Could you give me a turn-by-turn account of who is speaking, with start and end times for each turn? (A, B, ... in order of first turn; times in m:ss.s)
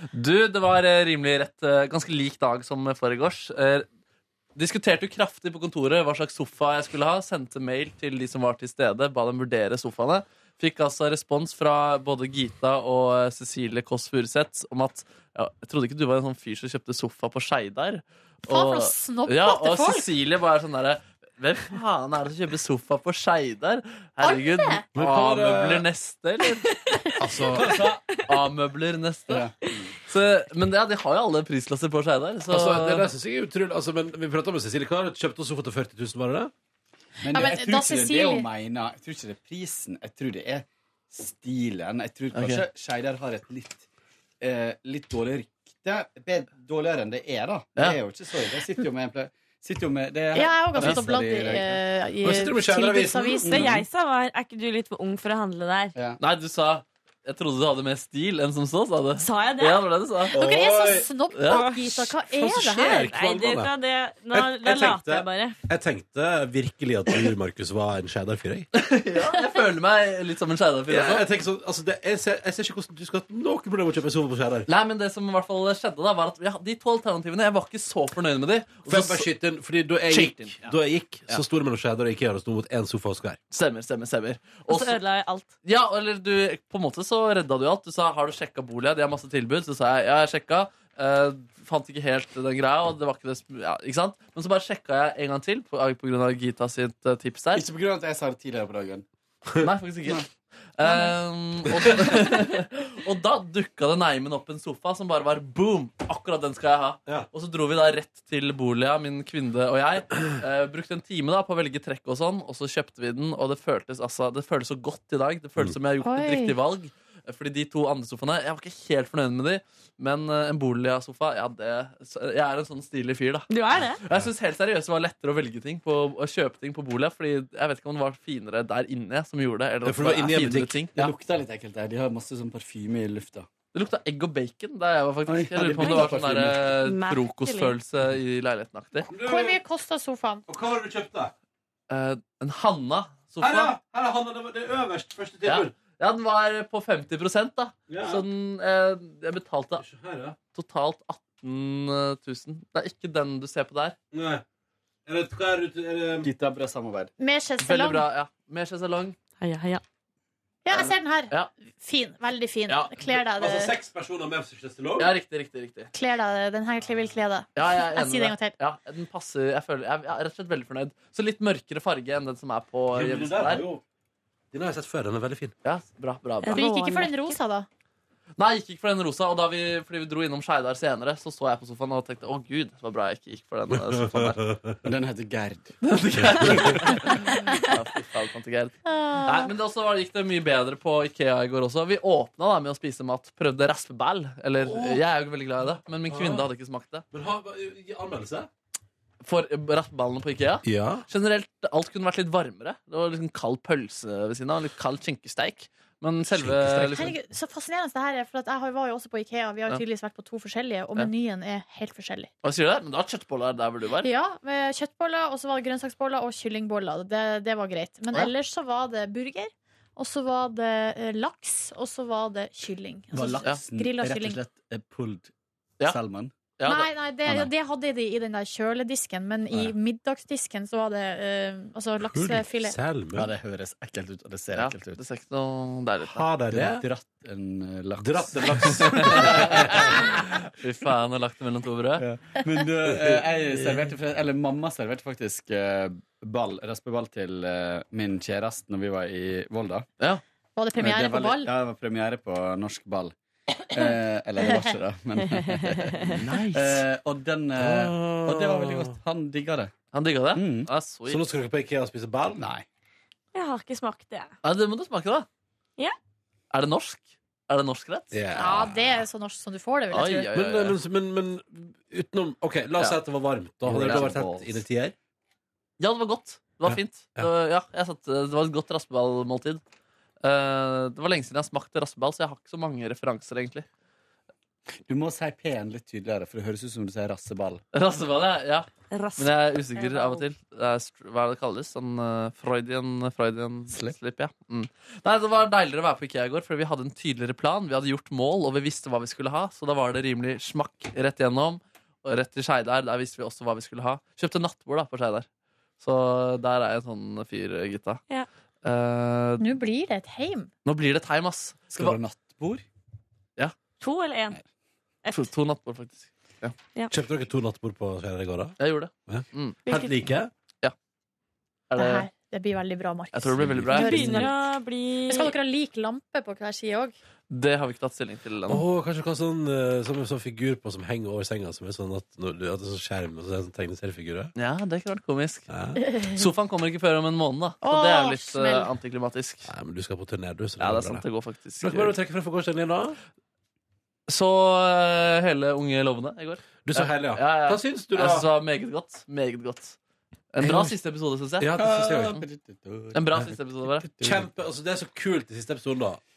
0:00.1-0:03.9 A
0:04.6-0:26.7 A
0:18.5-0:20.1 B
0:24.2-0:24.8 B
0:25.0-0:25.9 C
0:27.2-0:28.0 C
0:27.6-0:27.9 D
0:28.3-0:29.5 A
0:30.0-0:33.1 A
0:32.5-0:36.5 C
0:37.2-0:43.9 D
0:37.3-0:38.5 B
0:42.3-0:42.6 A
0:44.4-0:51.8 D
0:50.3-0:53.7 B
0:52.2-0:53.8 C
0:53.4-0:53.7 D
0:53.5-0:55.9 E
0:56.2-1:00.4 A
0:59.2-0:59.9 E
1:00.3-1:01.1 C
1:00.3-1:03.0 B
1:01.4-1:01.7 A
1:01.5-1:02.0 E
1:02.3-1:03.7 C
1:02.8-1:05.6 E
1:04.3-1:08.7 C
1:08.7-1:11.3 A
1:10.9-1:14.7 C
1:14.7-1:19.3 A
1:18.9-1:23.4 C
1:20.1-1:20.8 A
1:23.5-1:25.0 A
1:24.7-1:25.5 E
1:25.6-1:37.6 A
1:37.5-1:39.0 D
1:39.6-1:40.2 A
1:40.8-2:03.5 A
1:56.0-1:56.5 B
2:03.5-2:04.0 E
2:04.0-2:11.1 A
2:09.8-2:10.9 C
2:11.0-2:13.5 D
2:13.7-2:19.1 A
2:15.3-2:16.7 D
2:15.8-2:16.2 E
2:16.8-2:17.7 E
2:19.1-2:19.6 C
2:19.2-2:20.4 B
2:20.5-2:21.3 C
2:21.9-2:23.8 A
2:23.4-2:25.7 C
2:25.4-2:29.8 A
2:27.9-2:28.2 C
2:29.8-2:30.4 C
2:30.5-2:34.0 A
2:34.1-2:34.4 C
2:35.1-2:36.3 C
2:36.2-2:37.1 D
2:37.2-2:38.0 B
2:37.6-2:39.2 A
2:39.4-2:39.8 E
2:40.6-2:43.8 B
2:43.1-2:45.1 C
2:45.0-2:45.9 A
2:45.9-2:48.5 B
2:47.6-2:53.7 A
2:52.9-2:53.8 C
2:54.5-2:55.5 C
2:55.6-2:56.6 A
2:56.4-2:57.4 E
2:56.5-2:57.7 B
2:58.4-3:04.4 A
3:03.7-3:04.8 C
3:04.8-3:05.8 D
3:05.8-3:17.1 A
3:06.2-3:07.1 C
3:08.9-3:09.5 B
3:14.6-3:15.0 C
3:16.1-3:16.5 C
3:17.1-3:18.5 C
3:19.2-3:27.1 A
3:20.6-3:21.0 C
3:26.3-3:27.1 C
3:26.9-3:32.3 B
3:32.4-3:34.1 A
3:34.0-3:44.4 B
3:43.1-3:45.3 D
3:45.8-3:46.3 D
3:46.6-3:46.9 A
3:46.6-3:52.8 B
3:52.1-3:53.3 C
3:53.1-3:55.0 D
3:54.6-3:56.3 A
3:56.0-3:56.8 C
3:56.5-3:59.9 D
3:58.0-3:59.9 C
3:58.8-4:02.1 A
4:02.0-4:09.9 D
4:10.6-4:11.5 B
4:10.8-4:13.1 D
4:13.7-4:19.7 D
4:16.2-4:16.8 A
4:17.6-4:19.0 C
4:19.9-4:21.2 A
4:20.3-4:20.7 D
4:21.1-4:22.5 C
4:22.4-4:22.6 D
4:23.3-4:24.3 E
4:24.4-4:25.3 A
4:26.5-4:28.2 A
4:28.1-4:29.0 C
4:28.4-4:30.3 B
4:29.9-4:30.8 A
4:30.3-4:35.0 C
4:33.6-4:34.6 D
4:33.7-4:34.1 A
4:35.8-4:39.6 A
4:36.6-4:37.3 C
4:40.2-4:43.7 A
4:44.9-4:47.6 D
4:47.7-5:05.3 A
4:48.9-4:50.2 E
4:53.7-4:54.0 D
5:05.8-5:08.0 A
5:08.6-5:09.5 A
5:09.4-5:10.5 B
5:10.6-5:12.0 A
5:11.7-5:12.6 D
5:13.8-5:14.4 E
5:15.0-5:15.3 E
5:15.1-5:16.6 A
5:16.9-5:20.3 C
5:18.6-5:19.6 A
5:19.7-5:20.0 E
5:21.7-5:22.1 A
5:21.8-5:24.4 B
5:23.1-5:24.3 A
5:23.4-5:24.0 C
5:23.7-5:25.3 E
5:25.1-5:27.0 B
5:27.3-5:28.6 A
5:28.5-5:34.3 C
5:34.4-5:35.5 A
5:35.5-5:35.8 C
5:35.8-5:36.2 B
5:36.1-5:39.5 A
5:37.6-5:38.7 B
5:39.4-5:41.1 C
5:40.6-5:42.0 A
5:41.6-5:43.0 C
5:44.1-5:49.8 A
5:46.6-5:48.3 C
5:50.3-5:51.6 A
5:51.4-5:52.2 C
5:51.6-5:54.3 D
5:52.9-5:53.9 A
5:54.0-5:56.0 C